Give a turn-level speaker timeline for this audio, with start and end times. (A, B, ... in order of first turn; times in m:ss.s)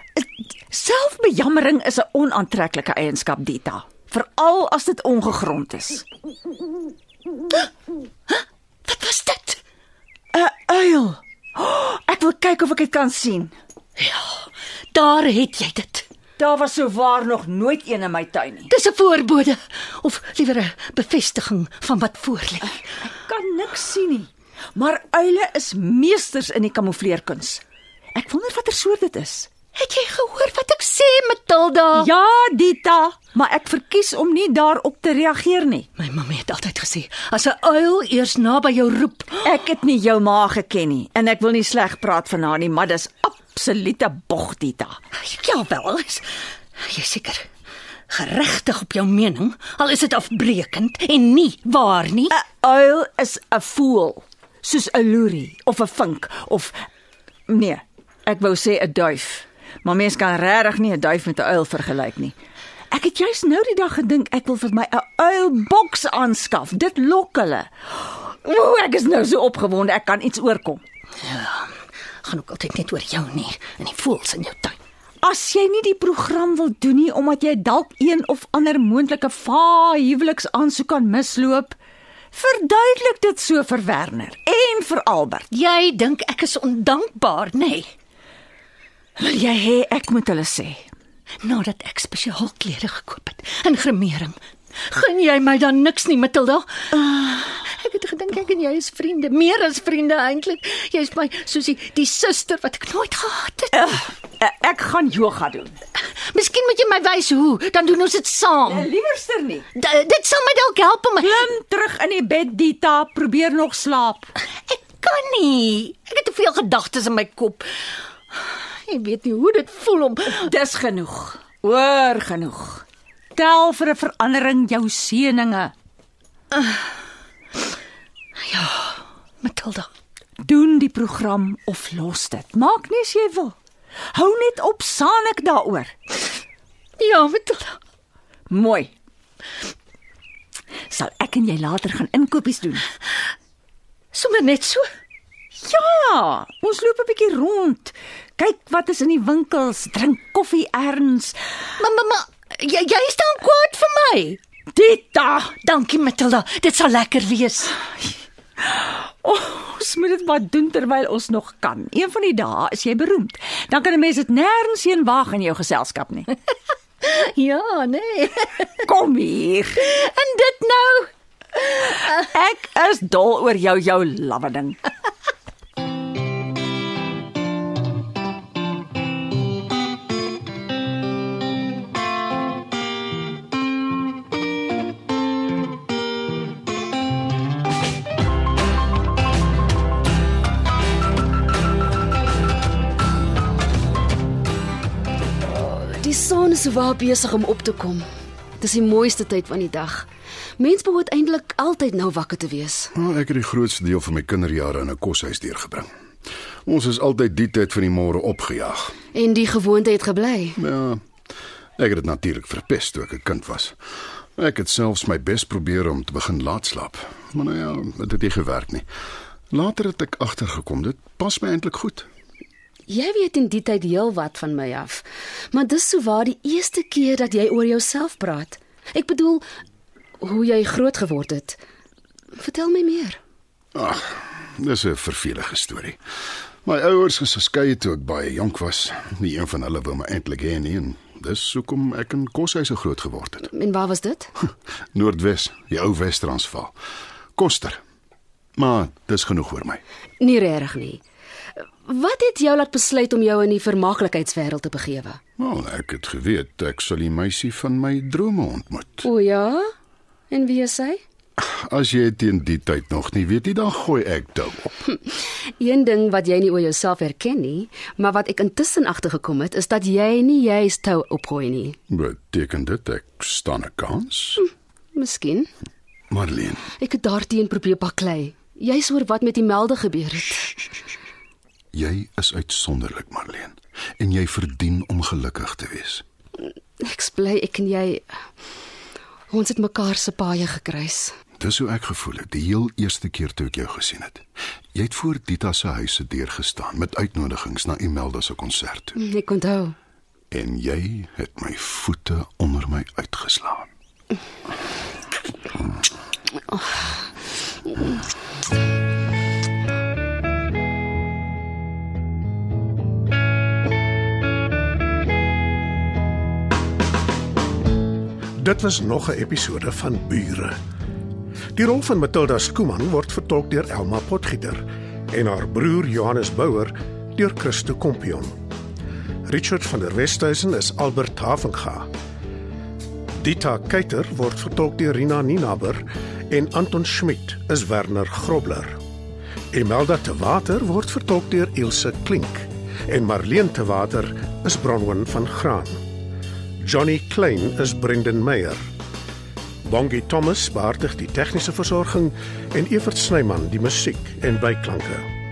0:00.2-0:06.0 A
0:08.3-0:09.6 B
0:10.3-0:13.5 A
0:14.0-0:16.0 B
0:16.4-0:18.7 A
0:18.7-0:22.8 B
0:22.9-0:27.6 A
0:28.1-0:29.5 A
0:29.7-0:32.1 B
0:32.0-0:35.9 A
0:36.0-0:39.6 B
0:39.4-0:45.0 A
0:45.1-0:47.5 B
0:48.1-0:52.4 B
0:52.3-0:56.8 A
0:57.5-1:02.4 A
1:02.9-1:10.8 A
1:11.1-1:14.8 B
1:15.2-1:21.8 A
1:22.3-1:25.5 A
1:25.5-1:27.9 B
1:29.2-1:30.9 A
1:31.4-1:44.0 B
1:37.0-1:37.4 A
1:43.7-1:45.8 A
1:46.0-1:48.9 B
1:48.6-1:49.6 A
1:49.8-1:51.5 B
1:51.2-1:54.3 A
1:54.4-2:00.6 B
2:00.3-2:02.8 A
2:03.4-2:05.7 A
2:06.5-2:06.8 B
2:08.4-2:09.9 B
2:10.4-2:13.5 A
2:14.1-2:15.9 A
2:17.0-2:17.8 B
2:18.5-2:18.9 A
2:20.9-2:22.9 A
2:24.1-2:24.8 B
2:25.6-2:31.4 A
2:31.8-2:34.4 B
2:34.7-2:35.6 A
2:35.6-2:37.8 B
2:38.0-2:46.3 A
2:47.0-2:48.9 B
2:48.8-2:49.8 A
2:49.8-2:52.2 B
2:51.6-2:54.8 A
3:15.5-3:18.0 C
3:18.6-3:22.9 C
3:22.9-3:25.9 D
3:26.6-3:28.9 D
3:29.1-3:30.6 C
3:30.6-3:31.0 D
3:31.8-3:33.8 D
3:34.4-3:38.9 D
3:39.5-3:42.1 D
3:42.9-3:49.4 C
3:50.2-3:51.6 C
3:52.4-3:53.2 C
3:53.8-3:56.0 D
3:56.6-4:03.5 D
4:03.5-4:04.3 C
4:04.9-4:06.8 D
4:07.4-4:07.8 D
4:08.6-4:09.8 D
4:10.2-4:11.0 C
4:11.8-4:15.2 C
4:15.4-4:19.1 D
4:19.0-4:19.7 C
4:20.3-4:21.0 C
4:21.4-4:24.8 D
4:24.9-4:31.8 C
4:31.9-4:34.4 D
4:34.9-4:35.5 C
4:36.1-4:36.6 D
4:36.8-4:40.6 C
4:41.7-4:46.0 D
4:46.8-4:48.2 C
4:49.3-4:51.1 C
4:51.4-4:54.2 D
4:54.7-4:59.0 D
4:59.0-4:59.8 C
5:00.3-5:03.7 D
5:06.5-5:06.9 C
5:18.4-5:20.5 E
5:21.6-5:28.3 E
5:29.3-5:31.9 E
5:33.2-5:38.8 E
5:39.5-5:45.8 E
5:46.6-5:48.6 E
5:49.6-5:55.0 E